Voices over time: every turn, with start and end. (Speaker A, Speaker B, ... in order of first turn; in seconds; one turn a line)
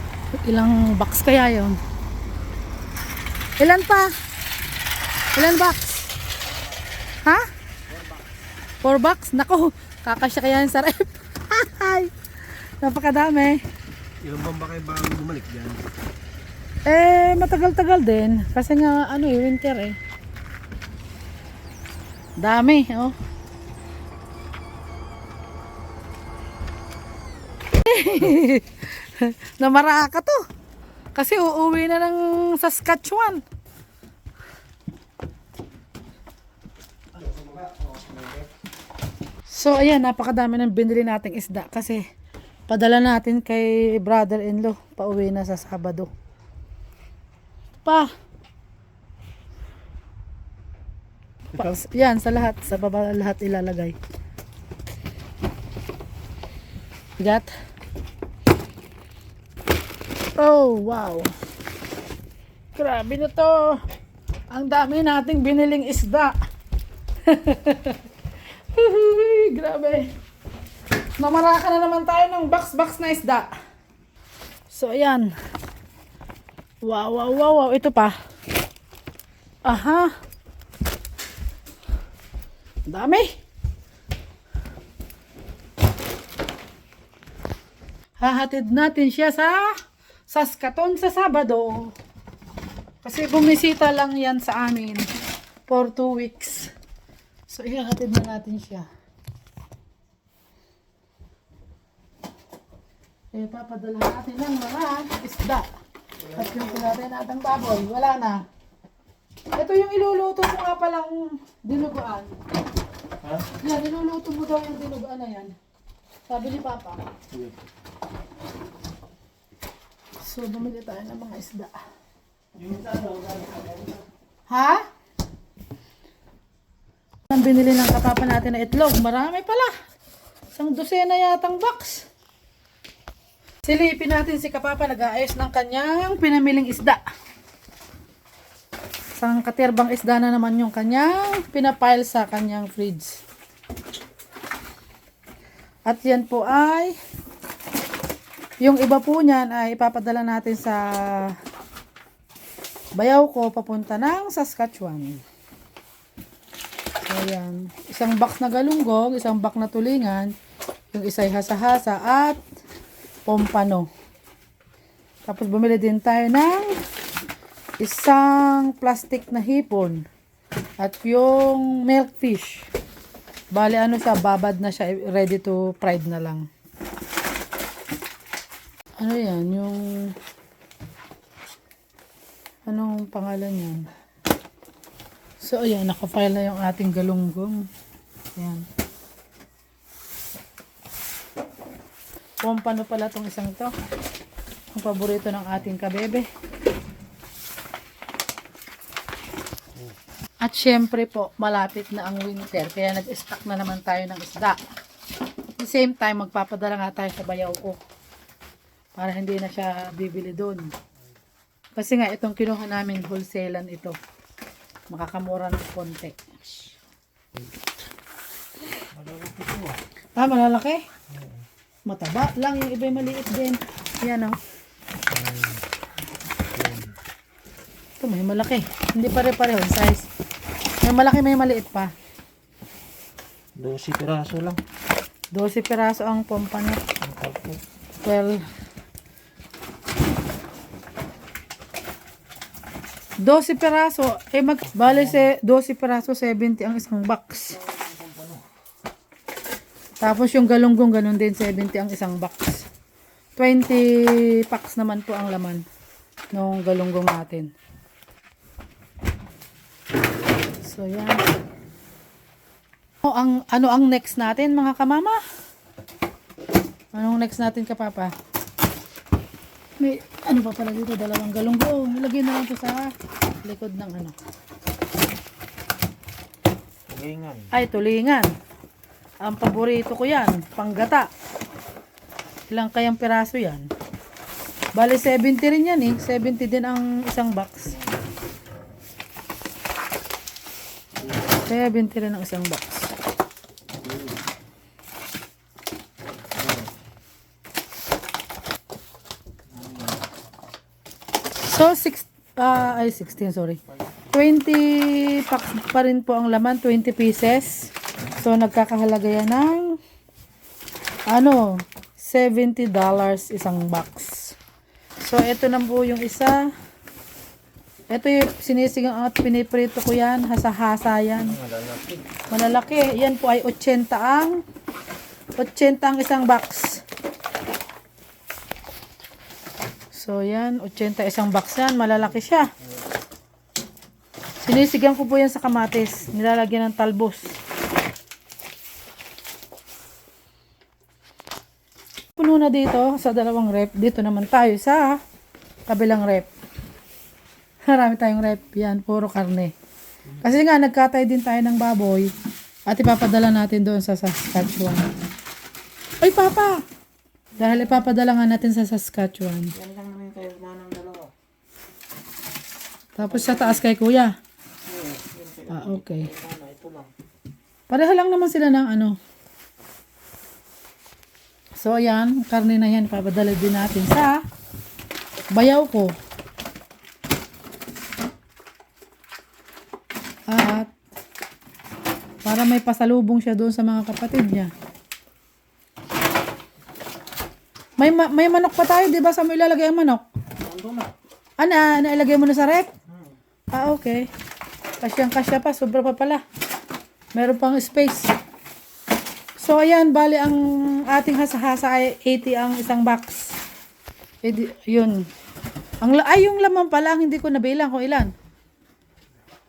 Speaker A: 0.4-1.8
Speaker A: 3.6-4.1
Speaker A: 5.3-6.1
Speaker A: 8.8-12.1
Speaker A: 12.8-13.6
Speaker B: 14.2-15.9
Speaker A: 16.9-20.0
Speaker A: 22.4-23.1
Speaker A: 27.8-30.4
Speaker A: 31.1-33.4
Speaker B: 37.2-38.5
Speaker A: 39.5-42.0
Speaker A: 42.7-46.1
Speaker A: 47.8-48.1
Speaker A: 51.5-54.0
Speaker A: 57.2-57.5
Speaker A: 60.4-61.3
Speaker A: 62.8-63.8
Speaker A: 64.5-66.4
Speaker A: 67.2-68.1
Speaker A: 68.7-70.1
Speaker A: 71.2-73.5
Speaker A: 74.7-75.3
Speaker A: 76.8-78.2
Speaker A: 79.7-80.1
Speaker A: 82.9-83.3
Speaker A: 88.2-89.7
Speaker A: 90.3-91.9
Speaker A: 93.0-95.0
Speaker A: 95.7-96.7
Speaker A: 97.5-98.9
Speaker A: 103.3-105.7
Speaker A: 106.2-108.4
Speaker A: 109.5-112.3
Speaker A: 113.5-115.5
Speaker A: 116.3-117.1
Speaker A: 120.2-121.8
Speaker B: 122.6-124.0
Speaker A: 124.5-124.8
Speaker A: 127.3-129.7
Speaker A: 130.6-132.1
Speaker A: 133.6-137.0
Speaker A: 139.2-143.2
Speaker A: 145.9-146.9
Speaker A: 148.6-151.4
Speaker A: 153.0-155.2
Speaker A: 157.0-160.3
Speaker A: 160.9-162.4
Speaker A: 163.3-163.9
Speaker A: 165.3-166.8
Speaker A: 167.8-170.1
Speaker A: 170.8-172.7
Speaker A: 173.5-176.5
Speaker A: 179.0-180.2
Speaker A: 182.7-183.8
Speaker A: 185.4-187.7
Speaker A: 188.4-188.7
Speaker A: 192.4-193.7
Speaker A: 194.7-196.3
Speaker A: 200.4-204.6
Speaker A: 205.6-207.8
Speaker A: 209.0-210.7
Speaker A: 211.8-214.0
Speaker A: 214.9-216.2
Speaker B: 218.8-219.8
Speaker A: 220.2-220.9
Speaker A: 221.9-224.4
Speaker B: 225.1-225.6
Speaker B: 226.5-226.9
Speaker A: 228.0-230.1
Speaker A: 230.8-231.9
Speaker B: 233.6-234.6
Speaker A: 235.3-236.9
Speaker B: 237.0-237.6
Speaker A: 238.0-238.4
Speaker A: 243.2-247.6
Speaker B: 244.9-245.2
Speaker B: 247.6-248.4
Speaker A: 250.0-252.7
Speaker A: 253.4-255.7
Speaker A: 256.3-257.5
Speaker A: 260.6-261.2
Speaker A: 263.0-265.2
Speaker A: 266.9-268.1
Speaker A: 269.8-274.1
Speaker B: 276.9-277.5
Speaker A: 277.5-278.3
Speaker A: 279.2-281.1
Speaker A: 282.5-283.7
Speaker A: 284.8-287.8
Speaker A: 291.3-292.9
Speaker B: 293.9-294.1
Speaker B: 299.6-299.9
Speaker A: 301.4-309.8
Speaker A: 311.1-314.4
Speaker A: 315.0-316.5
Speaker A: 317.9-321.4
Speaker B: 321.3-322.0
Speaker A: 322.3-324.4
Speaker A: 325.4-326.8
Speaker A: 329.9-332.5
Speaker A: 334.4-337.4
Speaker A: 342.2-345.0
Speaker A: 345.7-346.3
Speaker A: 347.7-349.5
Speaker A: 350.2-352.1
Speaker A: 352.7-354.9
Speaker A: 356.0-356.6
Speaker A: 357.4-359.5
Speaker B: 359.6-361.1
Speaker A: 363.0-364.1
Speaker B: 363.0-363.7
Speaker B: 364.7-366.9
Speaker A: 365.5-366.1
Speaker A: 367.7-369.0
Speaker A: 371.6-374.2
Speaker A: 375.3-375.9
Speaker A: 380.3-380.7
Speaker A: 382.2-384.5
Speaker A: 387.8-390.1
Speaker B: 390.4-390.9
Speaker A: 391.4-392.7
Speaker A: 393.5-394.1
Speaker A: 394.8-396.2
Speaker A: 397.1-398.1
Speaker A: 399.4-403.3
Speaker A: 404.2-405.1
Speaker A: 405.8-408.1